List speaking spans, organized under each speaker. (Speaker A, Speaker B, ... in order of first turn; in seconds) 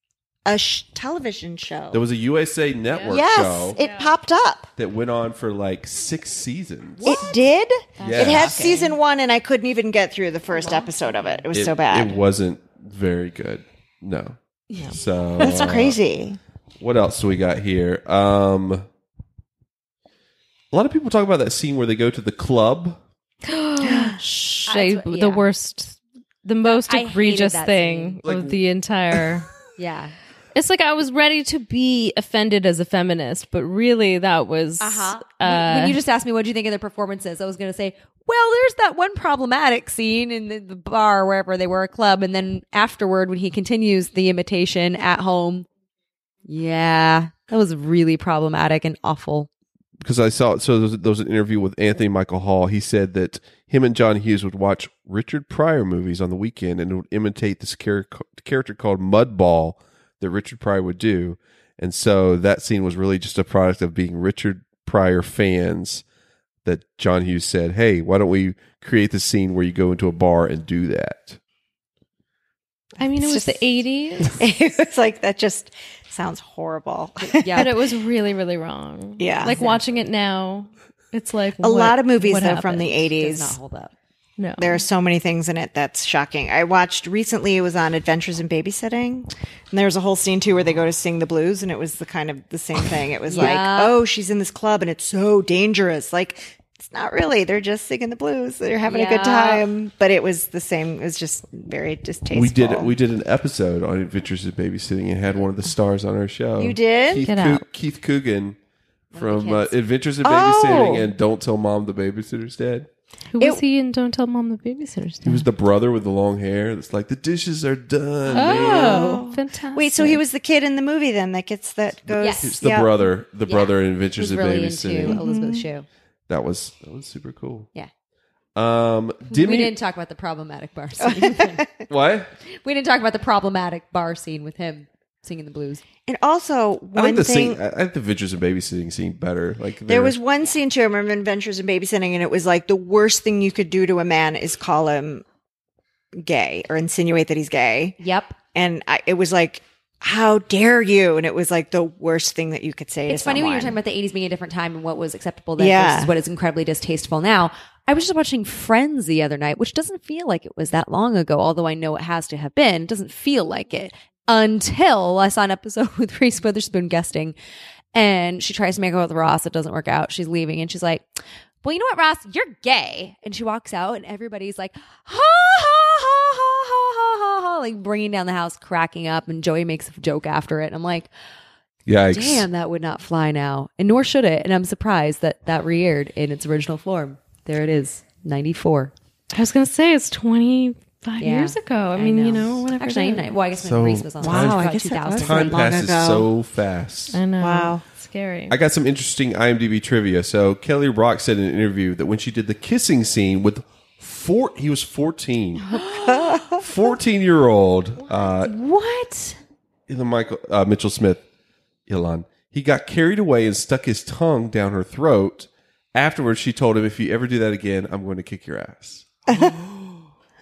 Speaker A: 0.4-2.0, 3.1-4.7, 7.0-12.2, 15.4-16.4, 23.8-24.2, 73.2-73.7, 74.2-77.7, 79.2-79.6, 81.6-83.6, 84.6-102.9, 106.6-107.3, 110.2-111.1, 118.3-123.0, 125.0-125.7, 131.0-131.8, 136.1-137.6, 139.9-145.2, 146.1-147.9, 148.5-153.8, 155.6-156.1, 194.2-196.3, 197.4-197.8, 205.9-206.6, 219.3-219.5
Speaker B: 1.9-3.8, 4.8-7.1, 8.0-8.6, 11.5-14.4, 14.9-16.0, 16.8-18.8, 20.7-23.0, 28.2-28.6, 50.0-66.0, 66.6-71.4, 102.3-108.6, 109.1-112.9, 115.2-119.1, 122.2-125.2, 126.3-127.7, 128.6-129.8, 131.9-132.3, 136.9-140.2, 181.8-182.4, 193.6-197.2, 198.5-205.6, 206.6-208.5, 209.9-211.2, 211.9-220.1
Speaker C: 2.9-3.2, 3.8-4.1, 8.2-8.9, 23.4-29.5, 30.5-36.0, 73.0-74.5, 77.6-82.9, 84.4-84.8, 107.2-107.6, 113.3-115.5, 118.3-120.2, 189.3-193.3, 197.1-198.6
Speaker D: 7.0-7.4, 8.0-8.8, 10.5-11.4, 24.7-25.4, 26.6-28.2, 29.8-30.1, 34.8-45.7, 46.5-49.5, 77.3-77.7, 79.5-79.8, 83.1-83.9, 93.3-94.0, 98.9-99.6, 109.1-109.7, 118.4-119.2, 122.2-122.5, 123.5-125.8, 129.3-131.6, 132.5-135.8, 148.0-148.4, 153.1-167.3, 167.9-181.1, 182.1-188.9, 191.2-195.9, 205.7-206.5, 208.4-209.4